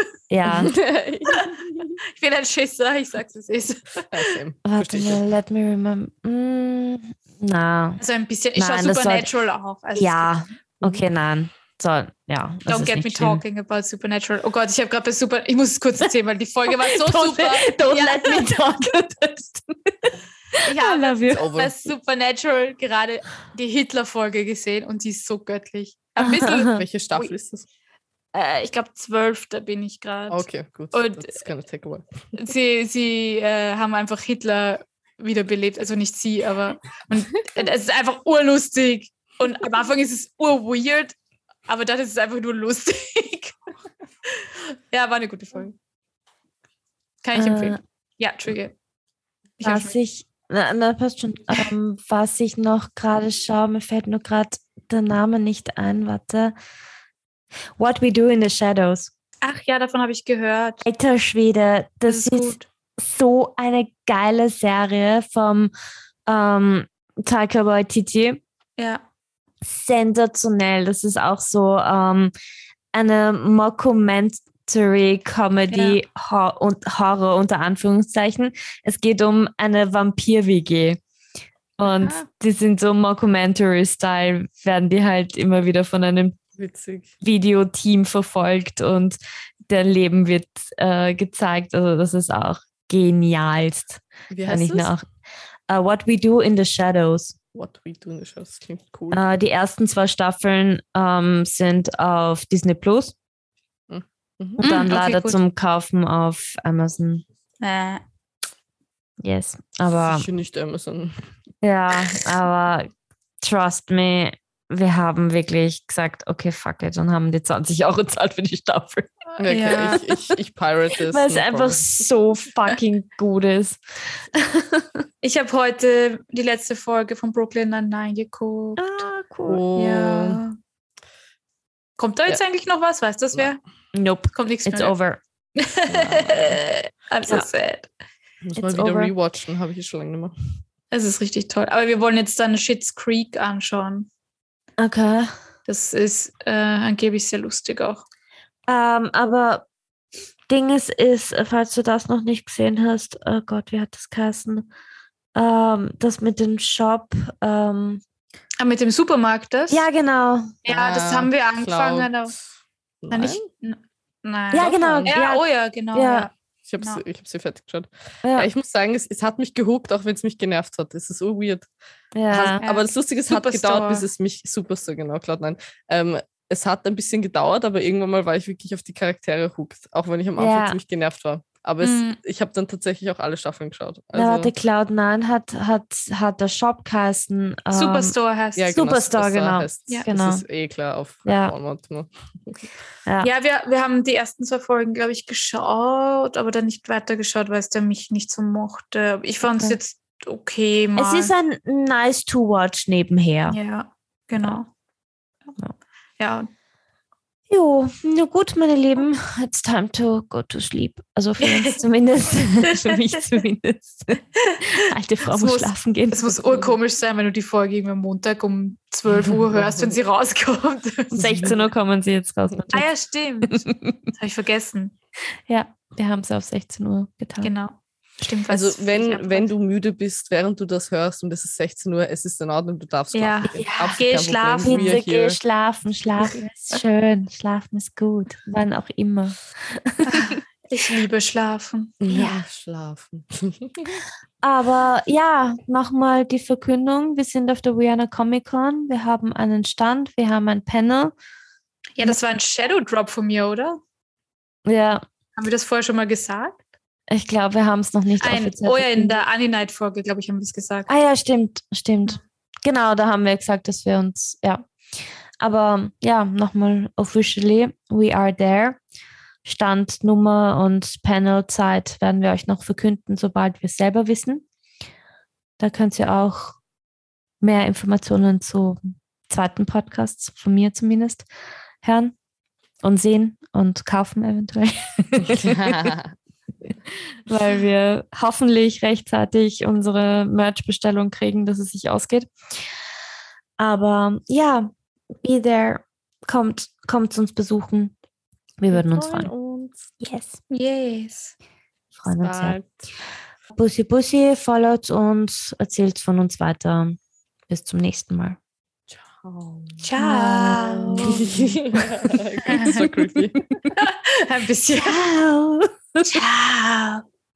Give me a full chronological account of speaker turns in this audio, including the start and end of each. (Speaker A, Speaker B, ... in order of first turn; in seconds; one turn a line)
Speaker A: 0.3-0.7
Speaker B: 0.6-2.0
Speaker C: 1.3-1.6
Speaker C: 2.2-4.3
Speaker B: 4.1-5.2
Speaker A: 4.7-8.0
Speaker C: 8.0-10.3
Speaker A: 8.6-9.3
Speaker A: 9.9-13.4
Speaker C: 12.7-18.6
Speaker A: 16.7-20.0
Speaker A: 20.5-21.5
Speaker C: 20.6-27.3
Speaker B: 21.3-21.7
Speaker A: 26.2-26.8
Speaker B: 26.8-27.7
Speaker C: 28.3-31.4
Speaker B: 30.3-32.3
Speaker C: 32.4-41.1
Speaker C: 41.7-43.7
Speaker C: 44.4-45.7
Speaker C: 47.2-48.7
Speaker A: 47.4-47.8
Speaker C: 49.6-50.0
Speaker A: 49.6-56.5
Speaker A: 57.8-59.1
Speaker C: 59.4-60.9
Speaker A: 60.9-65.7
Speaker C: 62.1-62.6
Speaker A: 66.3-68.4
Speaker C: 68.8-69.0
Speaker A: 69.7-72.3
Speaker A: 72.9-81.0
Speaker C: 75.7-76.0
Speaker A: 81.8-86.4
Speaker B: 82.0-82.3
Speaker B: 86.6-87.1
Speaker A: 87.2-95.0
Speaker B: 94.3-94.9
Speaker A: 95.7-97.4
Speaker B: 97.5-99.2
Speaker A: 99.1-103.2
Speaker B: 103.9-104.7
Speaker A: 104.6-107.2
Speaker C: 104.6-105.4
Speaker C: 107.6-108.0
Speaker A: 109.2-110.3
Speaker B: 109.9-111.3
Speaker A: 111.6-112.9
Speaker A: 113.4-119.1
Speaker B: 119.4-122.0
Speaker C: 119.5-120.0
Speaker A: 119.7-120.0
Speaker A: 121.1-124.9
Speaker C: 125.2-129.0
Speaker A: 128.8-129.6
Speaker B: 129.5-130.4
Speaker C: 129.8-130.6
Speaker C: 132.0-133.6
Speaker A: 133.9-135.2
Speaker C: 134.3-134.9
Speaker C: 135.6-137.9
Speaker B: 135.9-136.6
Speaker B: 138.4-140.6
Speaker A: 138.6-139.1
Speaker C: 140.9-144.1
Speaker A: 144.8-145.3
Speaker C: 145.7-148.0
Speaker A: 148.7-149.7
Speaker A: 150.5-154.7
Speaker A: 155.3-158.0
Speaker C: 158.6-159.8
Speaker A: 159.7-160.6
Speaker C: 160.7-162.3
Speaker B: 160.7-162.3
Speaker B: 163.0-163.4
Speaker C: 163.1-167.0
Speaker A: 164.5-166.3
Speaker B: 164.5-165.2
Speaker B: 166.7-171.7
Speaker A: 168.2-168.5
Speaker A: 172.2-172.6
Speaker B: 172.3-184.5
Speaker C: 172.6-174.0
Speaker A: 180.4-180.8
Speaker C: 181.8-182.2
Speaker A: 184.2-188.2
Speaker C: 187.7-188.7
Speaker B: 188.6-192.7
Speaker A: 188.7-190.4
Speaker A: 191.2-191.6
Speaker C: 193.2-201.3
Speaker A: 199.4-199.8
Speaker A: 201.0-203.6
Speaker C: 203.5-204.7
Speaker C: 206.2-206.5
Speaker A: 207.5-216.3
Speaker C: 211.4-211.8
Speaker C: 215.3-221.5
Speaker A: 221.1-222.9
Speaker B: 221.2-221.6
Speaker C: 222.7-224.9
Speaker A: 223.5-224.0
Speaker A: 225.5-227.5
Speaker C: 227.4-229.5
Speaker B: 228.5-235.4
Speaker C: 233.1-235.0
Speaker A: 233.6-234.0
Speaker A: 234.6-240.4
Speaker C: 236.2-236.8
Speaker C: 240.1-242.0
Speaker B: 242.0-244.0
Speaker A: 242.1-242.4
Speaker A: 244.4-251.1
Speaker C: 252.0-253.8
Speaker A: 254.7-255.0
Speaker C: 255.4-256.6
Speaker A: 257.1-259.1
Speaker C: 258.2-260.9
Speaker A: 260.9-264.7
Speaker A: 265.4-268.8
Speaker A: 269.4-274.4
Speaker A: 275.6-276.6
Speaker A: 277.4-281.3
Speaker A: 281.8-282.1
Speaker A: 282.8-285.9
Speaker B: 285.2-286.1
Speaker A: 287.3-292.3
Speaker A: 293.6-294.7
Speaker A: 295.2-297.9
Speaker A: 298.6-299.3
Speaker B: 298.7-300.0
Speaker A: 300.0-300.4
Speaker C: 300.5-301.3
Speaker A: 302.0-302.6
Speaker B: 302.1-302.9
Speaker A: 303.5-307.0
Speaker A: 307.5-308.4
Speaker B: 308.9-309.9
Speaker C: 309.8-311.2
Speaker A: 310.0-311.6
Speaker B: 311.2-313.5
Speaker A: 312.5-312.8
Speaker C: 312.5-312.8
Speaker C: 313.8-315.0
Speaker A: 314.8-316.0
Speaker C: 316.1-317.0